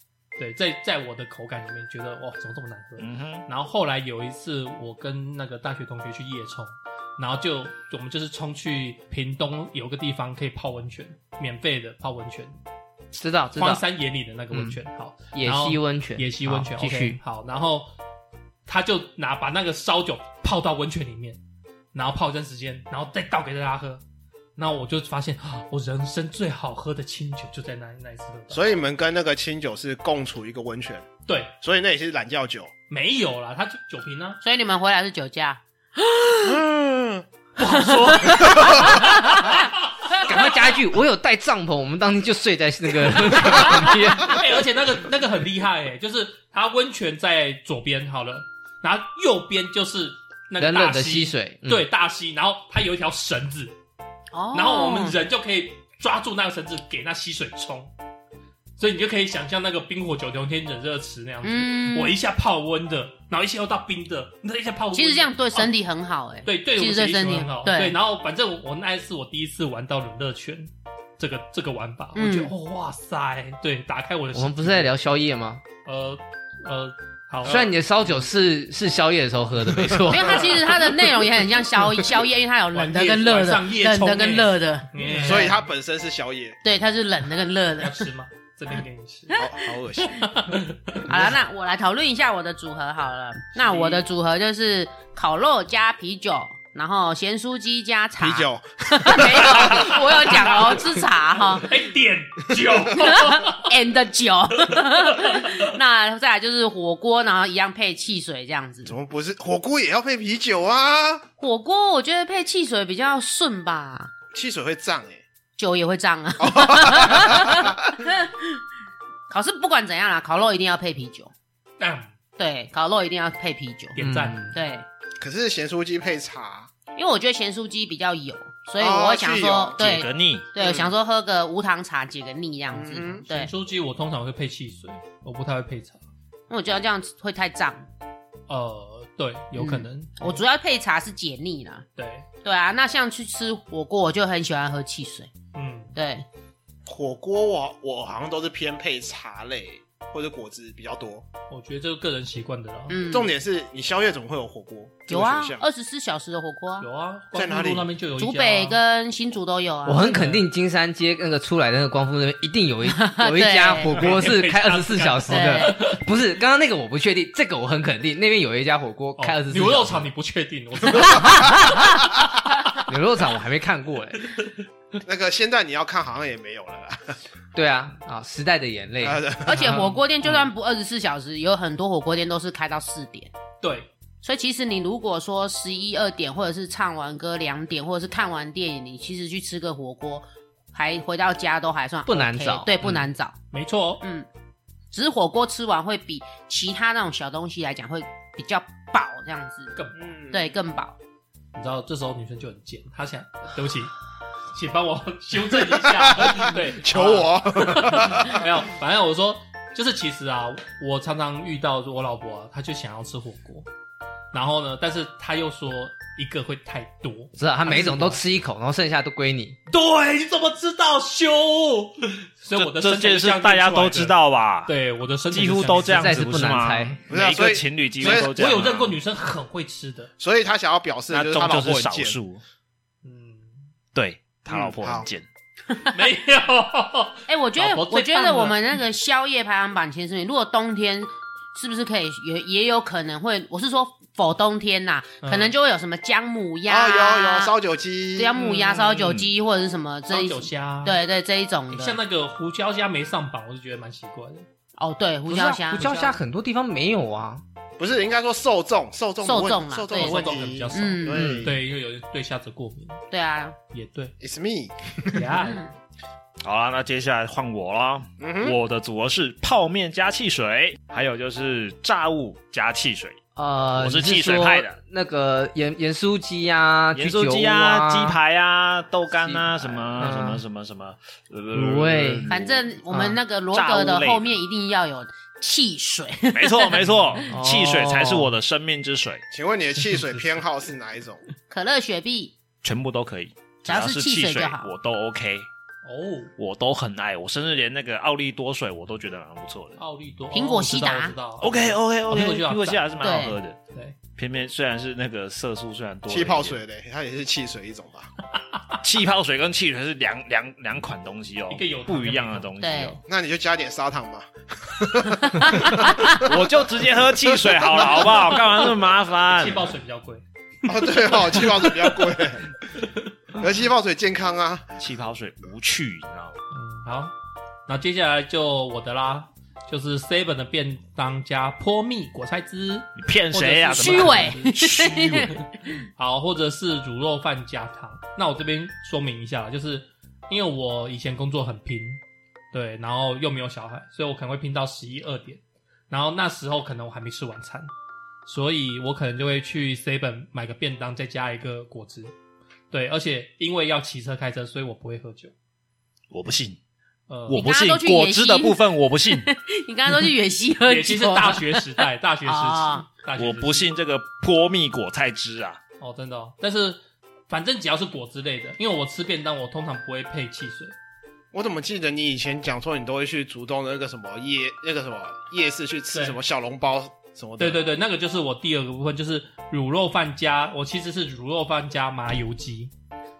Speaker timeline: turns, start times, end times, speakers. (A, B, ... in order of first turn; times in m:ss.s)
0:00.4-0:12.6 A
0:03.0-0:03.4 B
0:13.1-0:13.8 C
0:13.5-0:17.9 A
0:14.5-0:14.8 C
0:15.3-0:17.2 C
0:18.6-0:21.4 A
0:21.9-0:24.0 A
0:24.6-0:28.6 A
0:28.5-0:31.1 D
0:31.3-0:31.5 A
0:31.6-0:32.7 D
0:32.9-0:34.4 A
0:34.4-0:36.5 E
0:36.4-0:37.2 D
0:37.6-0:40.2 A
0:37.8-0:39.6 E
0:38.5-0:38.9 D
0:40.2-0:44.4 C
0:44.2-0:53.7 A
0:50.6-0:51.9 C
0:54.3-0:55.2 E
0:54.5-0:57.9 A
0:58.8-1:05.7 A
1:01.4-1:02.1 E
1:04.9-1:08.0 E
1:06.4-1:14.9 A
1:12.1-1:12.5 E
1:14.3-1:15.6 C
1:15.8-1:17.7 A
1:17.4-1:20.7 C
1:20.0-1:25.5 E
1:22.7-1:25.6 A
1:25.2-1:26.6 D
1:26.6-1:28.1 E
1:27.8-1:29.4 A
1:29.3-1:29.6 E
1:29.4-1:30.4 D
1:30.2-1:31.1 A
1:31.1-1:41.7 E
1:33.6-1:34.0 A
1:38.2-1:40.5 D
1:39.5-1:41.0 A
1:41.6-1:43.7 A
1:42.9-1:48.9 E
1:44.7-1:45.6 A
1:48.8-1:51.2 D
1:51.4-1:54.1 E
1:54.3-1:55.2 D
1:55.6-1:58.6 E
1:56.4-1:57.9 D
1:59.3-2:01.3 E
2:01.8-2:02.1 A
2:02.4-2:04.0 E
2:03.9-2:04.6 A
2:04.0-2:04.5 C
2:04.5-2:04.8 E
2:05.2-2:06.7 D
2:06.9-2:13.5 E
2:08.8-2:09.8 D
2:09.8-2:10.5 B
2:10.6-2:10.9 D
2:12.7-2:13.2 D
2:13.3-2:16.0 A
2:16.5-2:17.8 E
2:18.5-2:20.4 A
2:19.5-2:21.8 E
2:22.0-2:22.3 A
2:22.4-2:25.3 E
2:25.5-2:25.9 A
2:25.9-2:26.2 E
2:26.8-2:31.2 D
2:31.5-2:33.0 A
2:32.9-2:33.3 E
2:33.1-2:35.6 D
2:35.1-2:36.9 E
2:36.8-2:38.8 A
2:37.3-2:37.9 D
2:38.2-2:40.2 E
2:39.8-2:50.1 C
2:40.0-2:40.4 A
2:42.9-2:44.1 E
2:43.8-2:46.0 A
2:45.3-2:45.8 E
2:49.2-2:51.8 A
2:51.0-2:52.0 E
2:52.8-2:54.4 C
2:55.0-2:57.2 D
2:57.5-2:59.9 C
2:59.0-2:59.7 D
2:59.4-3:03.3 E
3:03.6-3:03.9 A
3:04.2-3:13.4 E
3:12.1-3:12.7 C
3:13.5-3:14.0 A
3:14.0-3:14.3 E
3:14.9-3:19.7 E
3:20.0-3:20.4 D
3:20.3-3:21.0 E
3:21.5-3:23.9 A
3:24.5-3:33.7 A
3:25.8-3:28.4 D
3:34.3-3:38.2 A
3:37.4-3:39.6 C
3:39.7-3:44.1 A
3:42.6-3:44.7 B
3:44.7-3:46.4 A
3:45.3-3:49.0 B
3:45.9-3:47.0 C
3:47.1-3:48.6 D
3:48.0-3:50.1 A
3:50.2-3:52.2 D
3:51.1-3:52.4 B
3:53.0-3:53.7 A
3:53.9-3:55.2 B
3:54.5-3:55.1 D
3:55.7-3:56.0 E
3:55.9-3:58.6 A
3:57.3-4:07.5 E
4:05.2-4:05.5 A
4:06.7-4:08.3 D
4:08.2-4:12.0 E
4:08.3-4:09.2 A
4:10.1-4:11.0 A
4:11.7-4:14.4 A
4:14.8-4:16.2 E
4:15.3-4:17.4 C
4:17.8-4:21.5 D
4:19.2-4:21.3 E
4:19.9-4:23.0 A
4:21.1-4:21.5 C
4:23.1-4:23.6 E
4:23.7-4:24.1 A
4:24.2-4:25.3 D
4:25.1-4:25.7 A
4:26.4-4:33.2 B
4:28.2-4:28.6 D
4:33.4-4:38.2 C
4:33.8-4:34.8 B
4:36.9-4:42.8 B
4:39.2-4:40.4 C
4:41.5-4:42.2 C
4:42.3-4:46.9 E
4:42.9-4:43.2 C
4:43.5-4:44.3 B
4:46.3-4:49.2 B
4:47.3-4:48.3 C
4:49.3-4:51.2 D
4:49.8-4:50.4 A
4:51.5-4:52.3 E
4:52.6-4:55.5 B
4:53.6-4:54.7 E
4:55.8-4:56.3 A
4:56.4-4:59.8 B
4:59.8-5:02.9 A
5:00.3-5:01.1 E
5:01.4-5:03.6 B
5:03.0-5:03.4 E
5:04.2-5:06.6 B
5:06.1-5:08.1 D
5:08.8-5:13.0 B
5:11.5-5:13.0 A
5:12.6-5:13.0 E
5:13.0-5:16.5 D
5:15.4-5:16.2 E
5:16.2-5:19.7 B
5:17.3-5:18.1 D
5:18.1-5:18.4 A
5:19.3-5:22.0 A
5:20.6-5:22.5 D
5:22.8-5:23.1 A
5:23.3-5:24.7 D
5:24.8-5:26.4 B
5:26.5-5:27.1 A
5:27.7-5:42.0 A
5:33.0-5:35.3 B
5:33.7-5:35.8 E
5:42.5-5:47.7 A
5:48.2-5:52.1 A
5:52.7-5:55.3 A
5:56.1-5:56.6 B
5:57.1-5:57.4 A
5:57.3-5:59.3 B
5:57.3-6:02.8 E
6:00.7-6:03.7 A
6:03.2-6:05.6 B
6:05.8-6:10.8 A
6:11.3-6:17.6 D
6:15.9-6:16.2 A
6:17.4-6:22.7 A